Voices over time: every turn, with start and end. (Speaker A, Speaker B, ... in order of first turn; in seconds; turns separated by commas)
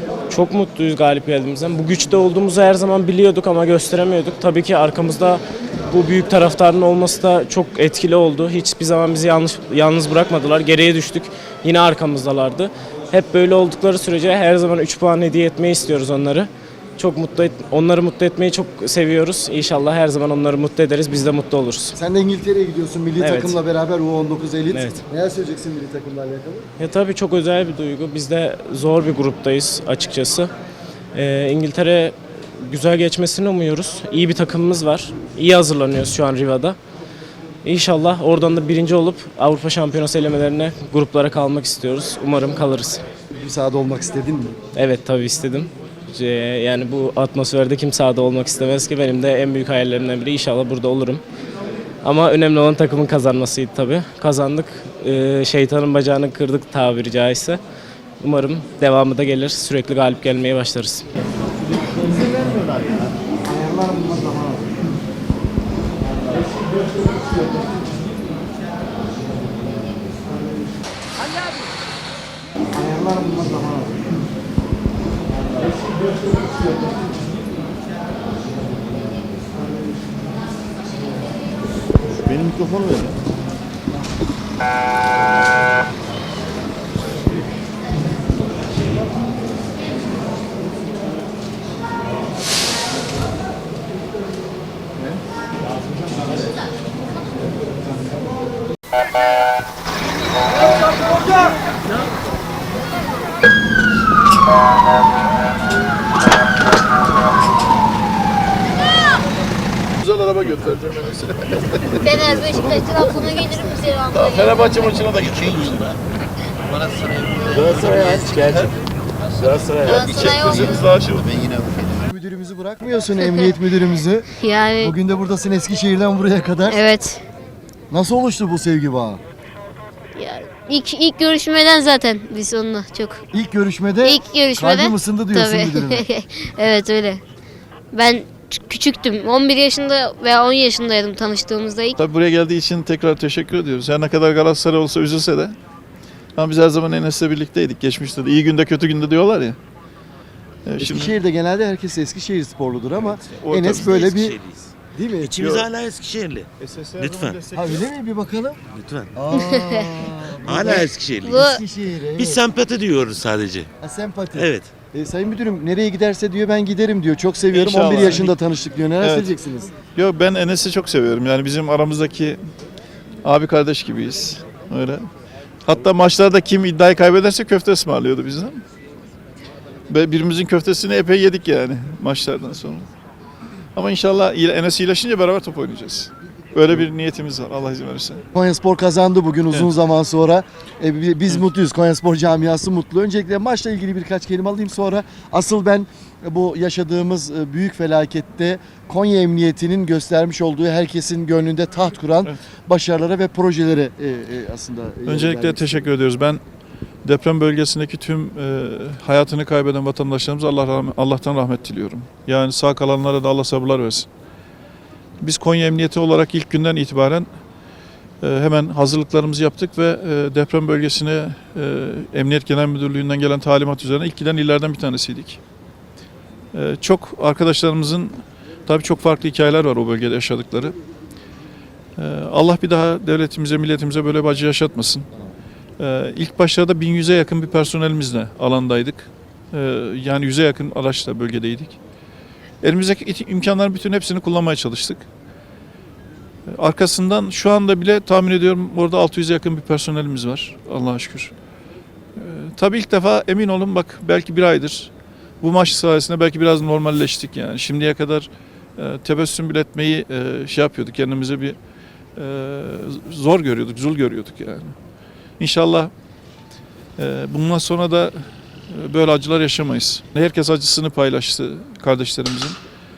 Speaker A: 0.3-21.9, Speaker B: 21.9-26.6, Speaker A: 23.2-23.6, Speaker A: 24.7-25.0, Speaker A: 26.8-30.5, Speaker A: 31.1-36.8, Speaker A: 37.6-43.0, Speaker B: 43.3-44.6, Speaker A: 44.8-51.2, Speaker A: 52.0-57.6, Speaker A: 58.2-61.0, Speaker C: 110.1-111.8, Speaker D: 110.2-111.2, Speaker E: 112.0-114.9, Speaker D: 112.0-113.4, Speaker D: 114.2-115.8, Speaker C: 114.4-115.3, Speaker F: 115.4-115.7, Speaker D: 117.8-118.3, Speaker F: 118.0-118.6, Speaker F: 119.8-120.1, Speaker E: 119.8-120.8, Speaker D: 119.9-121.2, Speaker F: 120.7-121.9, Speaker B: 122.1-126.8, Speaker E: 124.4-125.0, Speaker E: 126.6-127.2, Speaker B: 127.9-129.2, Speaker E: 130.2-133.2, Speaker B: 133.3-136.0, Speaker E: 134.0-137.2, Speaker E: 137.9-141.9, Speaker C: 142.0-145.5, Speaker D: 142.4-145.2, Speaker C: 146.4-149.5, Speaker D: 146.4-148.2, Speaker D: 150.7-151.1, Speaker B: 150.8-155.5, Speaker D: 153.0-154.0, Speaker F: 153.8-154.7, Speaker F: 155.2-156.5, Speaker D: 156.6-157.8, Speaker C: 156.9-157.3, Speaker F: 157.0-157.4, Speaker B: 157.5-158.6, Speaker F: 158.8-159.1, Speaker B: 159.1-162.5, Speaker E: 159.3-159.9, Speaker F: 160.4-161.4, Speaker E: 161.2-161.6, Speaker F: 162.1-163.7, Speaker B: 163.8-169.7, Speaker F: 164.3-164.7, Speaker D: 167.5-168.3, Speaker C: 167.8-168.3, Speaker D: 169.0-169.3, Speaker D: 170.0-172.3, Speaker C: 170.0-172.3, Speaker C: 173.3-175.0, Speaker D: 173.3-174.1, Speaker C: 175.7-178.6, Speaker D: 175.7-176.1, Speaker C: 179.9-182.8, Speaker D: 182.2-182.5, Speaker C: 183.8-188.2, Speaker D: 186.8-187.2, Speaker B: 188.3-205.9, Speaker D: 205.1-205.8, Speaker C: 205.2-206.4, Speaker C: 207.1-214.0, Speaker D: 212.2-212.6, Speaker D: 215.2-215.5, Speaker C: 215.2-217.3, Speaker C: 218.2-225.4, Speaker C: 226.5-228.1, Speaker C: 228.7-230.7, Speaker C: 232.3-235.0, Speaker C: 235.8-241.8, Speaker C: 242.6-245.0, Speaker C: 246.6-251.3, Speaker C: 252.6-254.9, Speaker D: 253.9-254.2, Speaker C: 255.4-258.2, Speaker D: 255.4-255.7, Speaker C: 258.8-261.5, Speaker C: 262.2-264.7, Speaker C: 265.4-265.9, Speaker C: 267.0-268.1, Speaker C: 268.9-272.5